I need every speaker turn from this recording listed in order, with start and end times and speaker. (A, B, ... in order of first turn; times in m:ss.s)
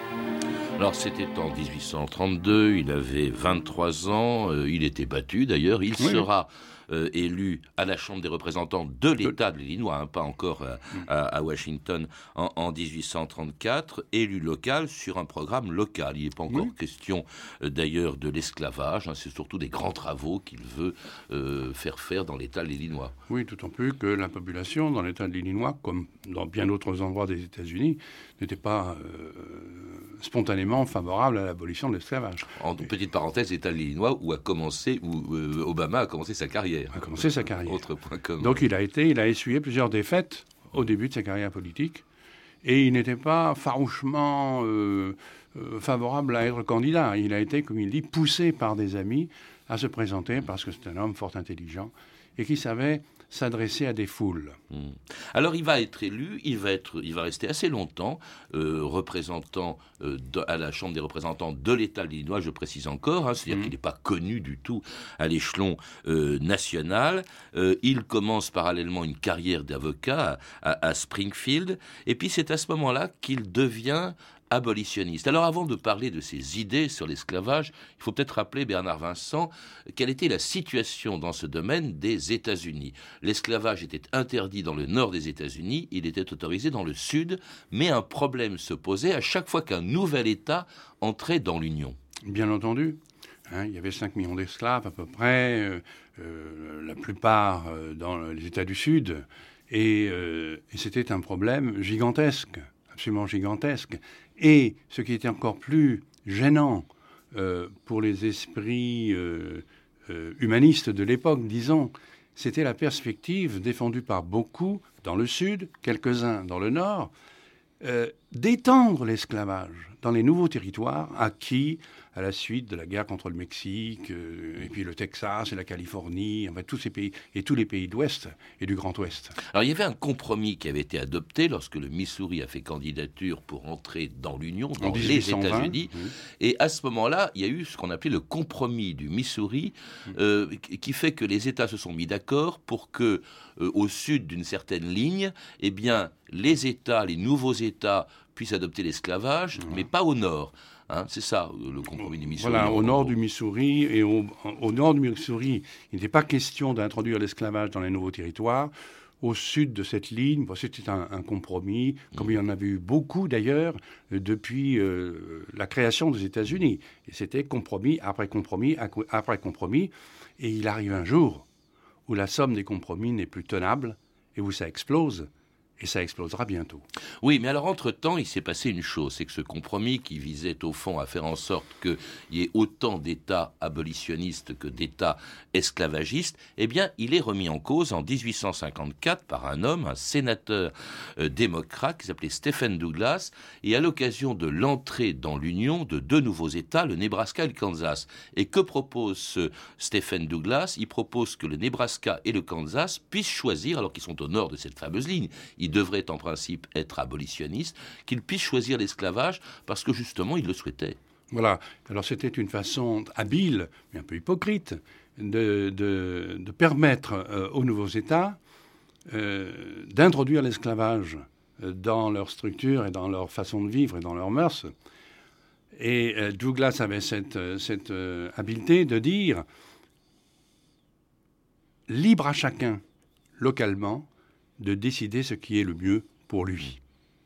0:00.8-0:23.2 A
0:06.0-0:06.3 B
0:23.3-0:32.6 B
0:32.6-0:38.6 A
0:37.0-0:37.8 B
0:38.4-0:42.0 B
0:42.6-0:54.6 B
0:54.7-1:32.0 A
1:32.2-1:57.1 B
1:57.8-2:09.4 B
2:09.5-2:33.1 A
2:14.8-2:16.1 B
2:32.0-2:51.5 B
2:52.1-2:56.8 B
2:57.2-3:31.0 A
3:31.3-3:38.4 B
3:39.1-3:44.7 B
3:45.7-3:49.5 B
3:51.9-3:52.8 B
3:53.4-3:56.8 B